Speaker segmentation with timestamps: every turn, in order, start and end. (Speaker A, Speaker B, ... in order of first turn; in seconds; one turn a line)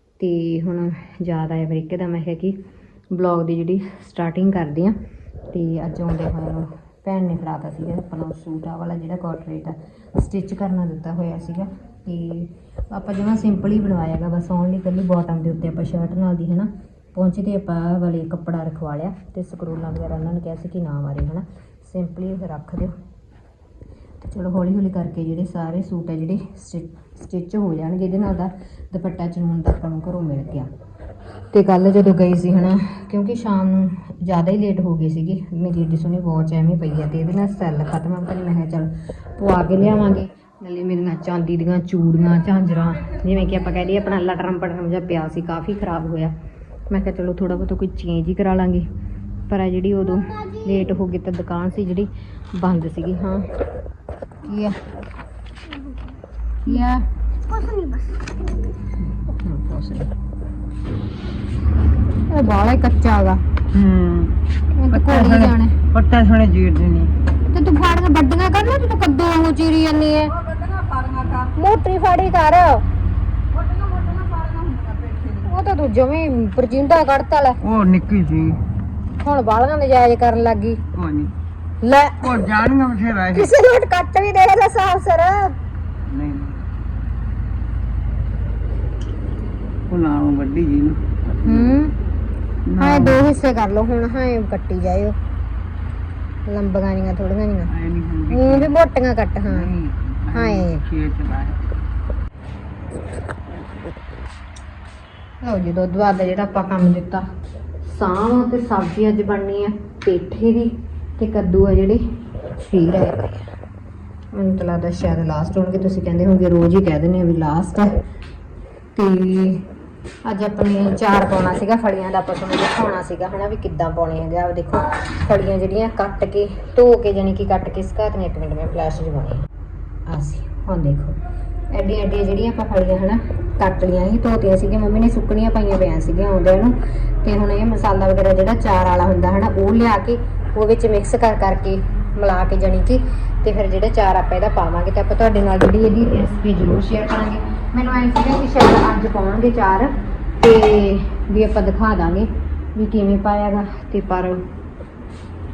Speaker A: 0.2-2.6
Speaker A: 3.1-5.0
Speaker A: 5.5-22.9
Speaker A: 24.2-30.7
Speaker A: 31.5-46.3
Speaker A: 46.9-48.9
Speaker A: 49.5-53.5
Speaker B: 50.0-51.0
Speaker A: 54.4-54.8
Speaker B: 55.7-56.1
Speaker A: 56.6-57.1
Speaker B: 57.5-58.2
Speaker A: 59.1-60.1
Speaker A: 62.3-63.4
Speaker C: 63.7-64.3
Speaker A: 64.8-65.8
Speaker C: 64.9-67.1
Speaker A: 67.5-70.3
Speaker C: 70.7-71.5
Speaker A: 71.5-72.8
Speaker C: 73.7-75.3
Speaker A: 75.4-77.6
Speaker C: 77.6-78.6
Speaker A: 79.2-80.8
Speaker C: 80.9-81.3
Speaker A: 81.8-82.5
Speaker C: 82.2-83.5
Speaker A: 83.3-85.5
Speaker C: 86.1-86.6
Speaker C: 89.9-91.0
Speaker A: 91.4-92.0
Speaker C: 92.7-93.2
Speaker A: 92.8-95.2
Speaker A: 96.5-97.7
Speaker C: 97.8-98.7
Speaker A: 98.3-99.7
Speaker C: 99.5-101.6
Speaker A: 100.3-100.9
Speaker A: 105.4-107.3
Speaker A: 107.8-112.0
Speaker A: 112.5-113.5
Speaker A: 114.3-117.9
Speaker A: 119.0-119.7
Speaker A: 120.2-129.5
Speaker A: 130.1-131.2
Speaker A: 131.7-154.4